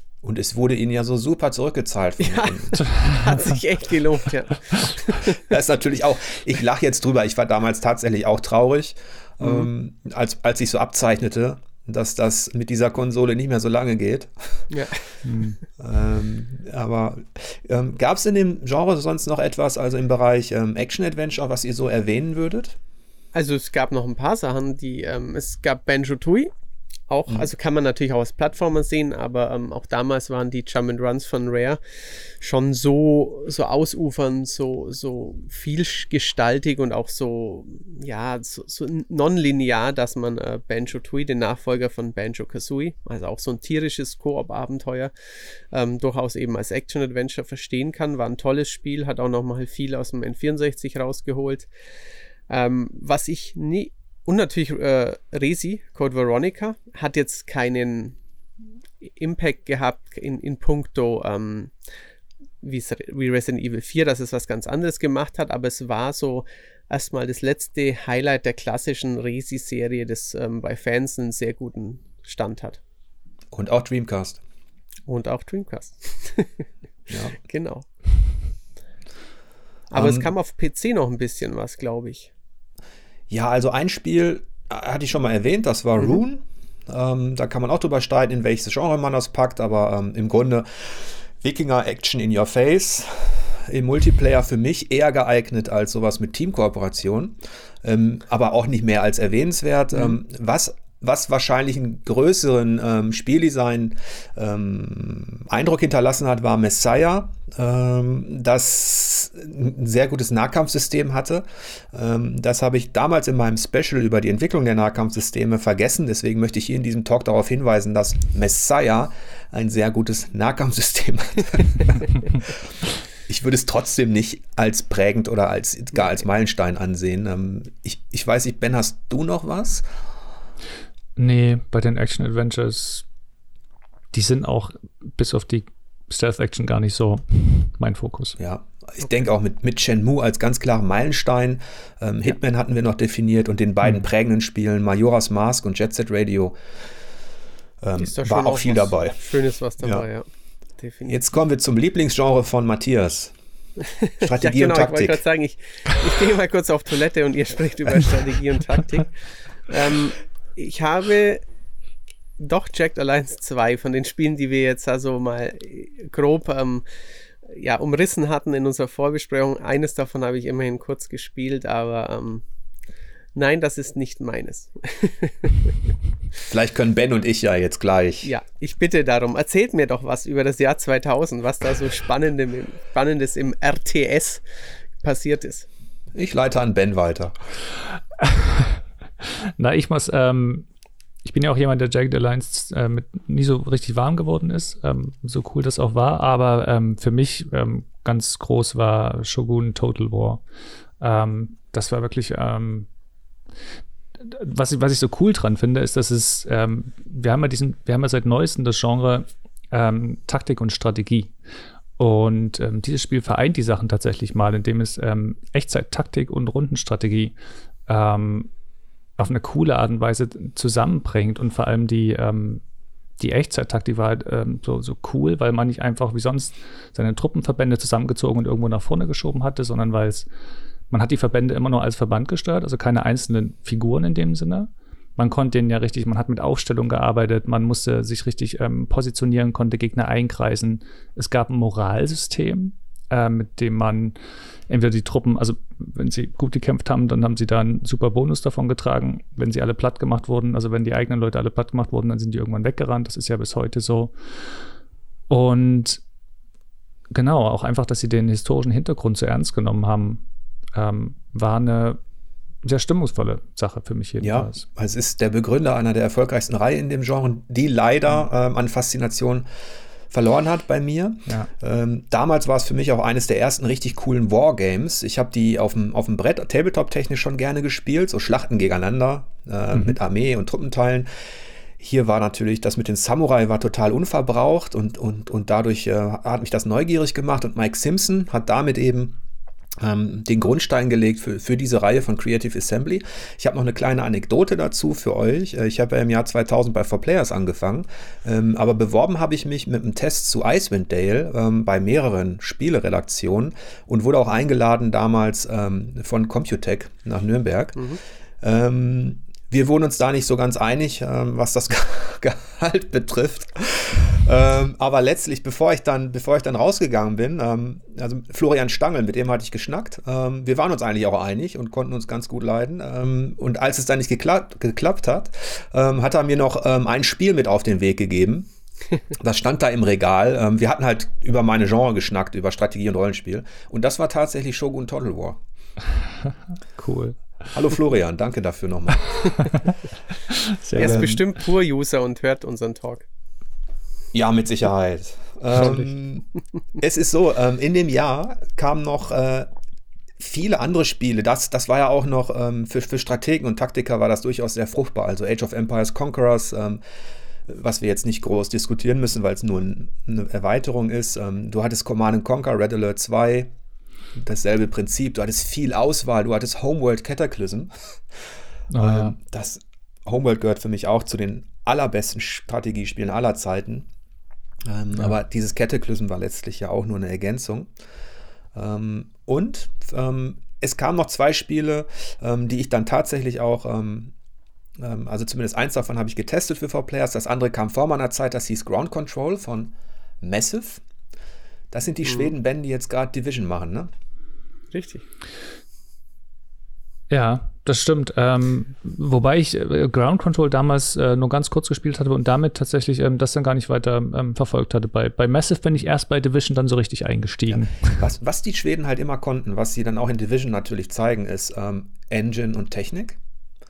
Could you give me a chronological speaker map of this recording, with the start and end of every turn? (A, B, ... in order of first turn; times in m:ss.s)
0:00.2-0:02.8 A
0:02.2-0:05.4 B
0:02.8-0:03.4 C
0:05.3-0:14.6 A
0:09.4-0:09.7 B
0:14.7-0:15.0 B
0:15.2-0:15.6 C
0:15.8-0:22.8 A
0:23.3-0:26.5 B
0:27.1-0:31.8 B
0:32.4-0:45.1 B
0:45.7-0:51.7 B
0:52.5-0:58.2 B
0:59.0-1:01.7 B
1:02.6-1:12.8 B
1:13.5-1:14.4 A
1:15.1-1:16.5 B
1:17.1-1:17.4 A
1:17.4-1:17.9 B
1:19.9-1:22.3 B
1:19.9-1:20.3 A
1:23.3-2:02.4 A
2:03.3-2:09.8 A
2:11.2-2:13.0 C
2:14.1-2:18.4 C
2:18.4-2:26.6 A
2:27.8-2:29.2 A
2:28.0-2:30.2 B
2:30.8-2:31.2 B
2:31.1-2:33.3 A
2:33.8-2:39.1 B
2:34.2-2:35.2 A
2:39.7-2:41.4 B
2:42.4-2:46.8 B
2:47.4-2:52.4 B
2:53.3-2:55.7 B
2:56.5-2:58.3 A
2:58.2-3:04.4 B
3:05.0-3:05.7 B
3:06.1-3:07.3 A
3:08.2-3:10.6 C
3:11.2-3:20.4 C
3:21.0-3:22.9 C
3:24.2-3:31.3 C
3:32.0-3:37.3 C
3:37.9-3:38.5 C
3:39.2-3:42.6 C
3:43.2-3:50.3 C
3:50.9-4:04.2 C
4:04.7-4:14.6 C
4:15.3-4:16.0 C
4:17.1-4:20.2 C
4:20.7-4:22.0 C
4:22.6-4:24.6 C
4:24.2-4:29.4 A
4:30.1-4:41.1 A
4:41.8-4:49.2 A
4:49.8-5:07.8 A
5:08.4-5:28.5 A
5:29.1-5:35.4 A
5:36.8-5:37.2 C
5:37.5-5:39.6 A
5:39.3-5:39.7 C
5:40.3-5:41.2 C
5:40.7-5:43.0 B
5:40.8-5:41.2 A
5:44.1-5:46.2 A
5:45.5-5:45.9 C
5:46.8-5:49.5 A
5:50.2-5:56.8 A
5:57.5-6:03.5 A
6:04.1-6:07.7 A
6:08.7-6:09.1 C
6:08.8-6:13.9 A
6:14.7-6:17.7 A
6:18.5-6:24.1 A
6:24.8-6:30.8 A
6:31.7-6:33.9 A
6:32.0-6:32.3 B
6:34.7-6:35.0 B
6:37.1-6:48.0 C
6:47.5-6:53.2 A